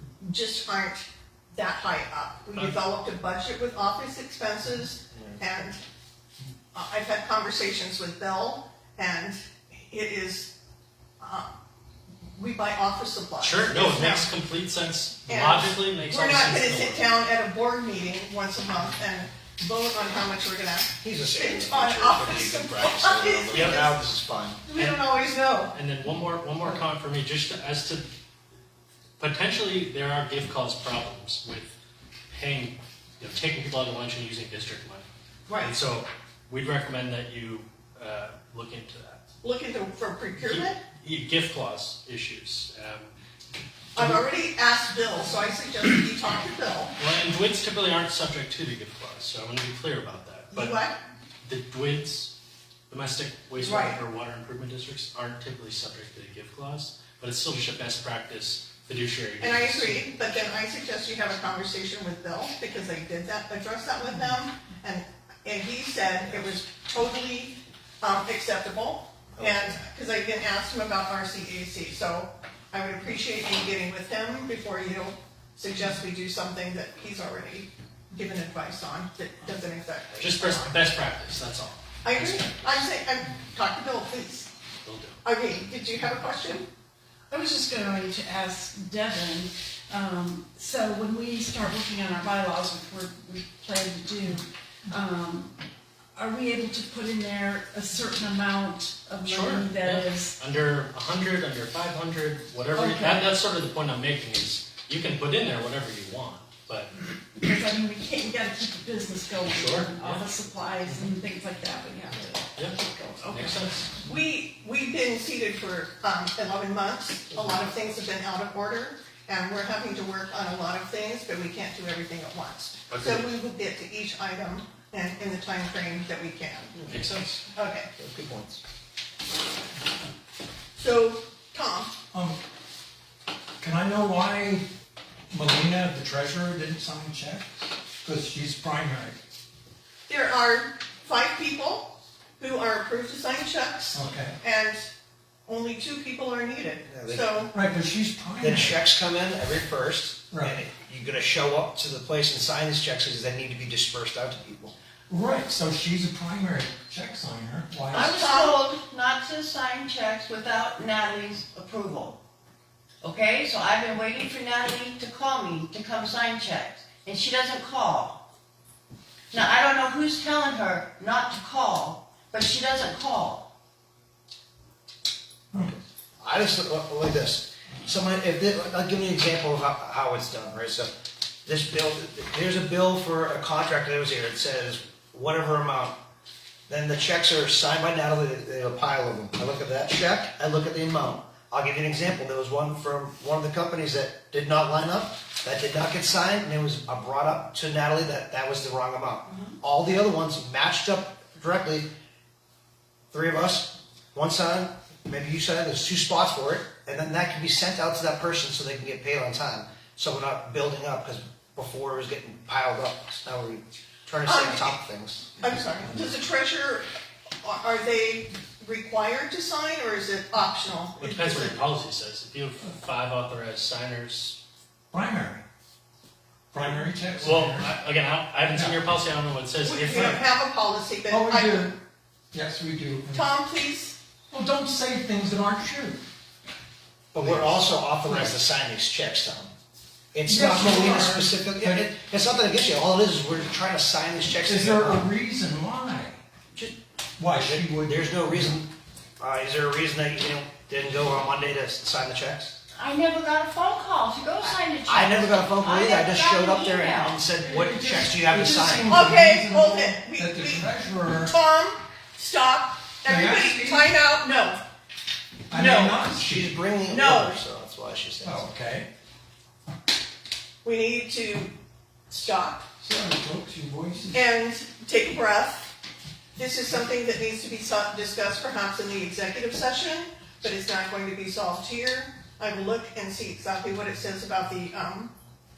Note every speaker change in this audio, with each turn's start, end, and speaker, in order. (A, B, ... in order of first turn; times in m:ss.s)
0:00.2-0:05.8 A
0:06.7-0:10.5 A
0:11.2-0:11.5 A
0:12.4-0:14.3 A
0:13.4-0:17.1 B
0:15.3-0:24.0 A
0:21.0-0:24.6 C
0:23.5-0:23.8 B
0:24.7-0:25.7 A
0:24.7-0:25.0 B
0:25.7-0:28.1 B
0:29.2-0:31.7 B
0:32.3-0:35.1 B
0:35.5-0:35.7 A
0:35.6-0:39.2 B
0:39.4-0:40.8 A
0:40.4-0:43.1 B
0:43.9-0:46.9 A
0:44.0-0:44.2 B
0:47.0-0:50.8 B
0:50.5-0:51.0 A
0:51.4-0:52.3 B
0:52.9-1:00.5 B
0:53.6-0:54.0 A
0:59.4-1:20.8 A
1:09.4-1:09.8 C
1:20.2-1:22.7 B
1:22.0-1:24.5 A
1:24.8-1:25.2 B
1:25.2-1:26.7 A
1:27.3-1:35.5 D
1:36.1-1:40.4 D
1:39.2-1:46.9 B
1:42.8-1:43.3 D
1:47.3-1:54.0 D
1:49.5-1:50.3 B
1:52.5-1:53.9 B
1:54.0-2:06.7 A
1:57.3-1:57.8 C
2:02.9-2:03.2 B
2:06.8-2:07.4 C
2:06.9-2:07.3 B
2:07.5-2:07.9 A
2:08.0-2:08.6 C
2:10.8-2:11.9 A
2:12.1-2:12.4 E
2:13.6-2:14.7 E
2:15.3-2:19.2 E
2:20.1-2:24.8 A
2:23.9-2:24.4 E
2:25.5-2:27.5 A
2:26.8-2:27.3 C
2:27.5-2:28.8 E
2:28.4-2:34.7 C
2:35.1-2:38.1 E
2:37.9-2:42.2 F
2:38.1-2:38.7 A
2:43.0-2:48.2 F
2:49.3-2:53.5 F
2:55.5-3:00.9 C
3:01.4-3:05.9 C
3:06.7-3:21.9 C
3:23.1-3:35.3 C
3:34.2-3:34.7 A
3:35.4-3:36.9 A
3:37.4-3:41.6 A
3:41.0-3:44.4 B
3:44.9-3:45.4 E
3:46.5-3:47.7 E
3:46.6-3:50.2 B
3:48.5-3:48.8 E
3:49.6-3:51.8 A
3:51.1-3:51.7 E
3:52.3-3:53.3 E
3:53.1-3:54.0 A
3:54.3-3:56.0 E
3:57.1-3:59.5 C
3:57.2-3:57.5 E
4:00.1-4:05.1 C
4:00.2-4:01.9 E
4:04.4-4:06.2 E
4:07.2-4:08.6 E
4:07.3-4:12.5 C
4:12.7-4:17.3 F
4:14.4-4:19.0 C
4:17.4-4:21.3 E
4:18.9-4:24.6 A
4:23.0-4:23.9 E
4:25.5-4:26.6 E
4:25.5-4:26.0 A
4:26.1-4:28.5 C
4:26.9-4:27.4 A
4:28.2-4:28.9 E
4:30.6-4:31.5 A
4:32.1-4:32.6 A
4:32.8-4:34.2 E
4:34.1-4:35.7 A
4:36.4-4:45.1 A